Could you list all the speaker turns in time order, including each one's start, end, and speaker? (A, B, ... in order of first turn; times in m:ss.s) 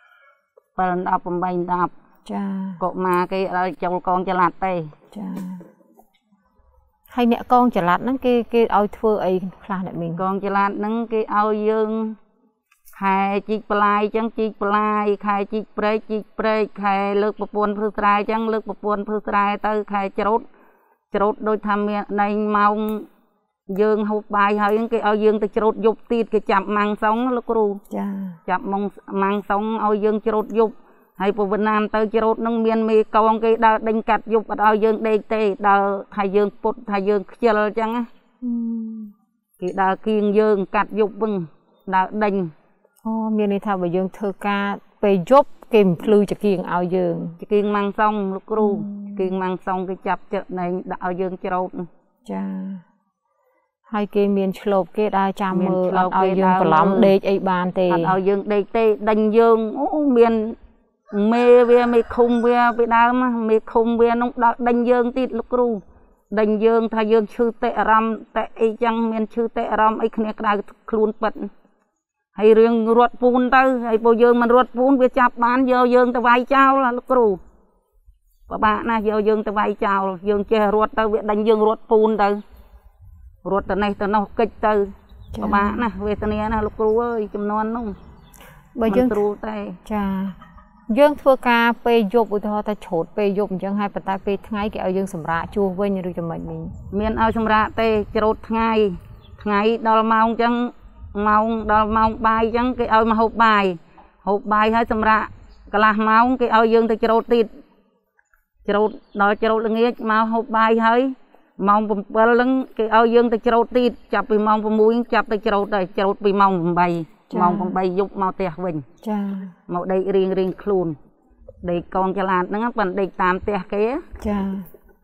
0:00.8-0:01.9 A
0:02.2-0:02.8 B
0:02.8-0:04.9 A
0:05.1-0:05.6 B
0:07.1-0:10.2 B
0:10.2-0:12.2 A
0:12.9-0:20.4 A
0:21.1-0:23.1 A
0:23.7-0:27.8 A
0:27.9-0:28.4 B
0:28.4-0:38.1 A
0:38.4-0:39.1 B
0:39.6-0:42.5 A
0:43.0-0:47.4 B
0:47.4-0:51.9 A
0:48.6-0:49.3 B
0:52.2-0:52.8 B
0:53.9-0:58.2 B
0:55.5-0:57.1 A
0:57.9-1:00.6 A
1:01.1-1:11.5 A
1:12.4-1:17.4 A
1:18.5-1:22.4 A
1:23.4-1:28.0 A
1:25.3-1:25.8 B
1:28.8-1:29.2 B
1:28.9-1:29.8 A
1:29.8-1:30.4 B
1:30.9-1:36.7 B
1:36.9-1:47.5 A
1:48.6-1:58.8 A
1:57.3-1:57.7 B
1:59.0-1:59.5 B
1:59.7-2:01.0 A
2:01.6-2:04.0 A
2:04.2-2:04.7 B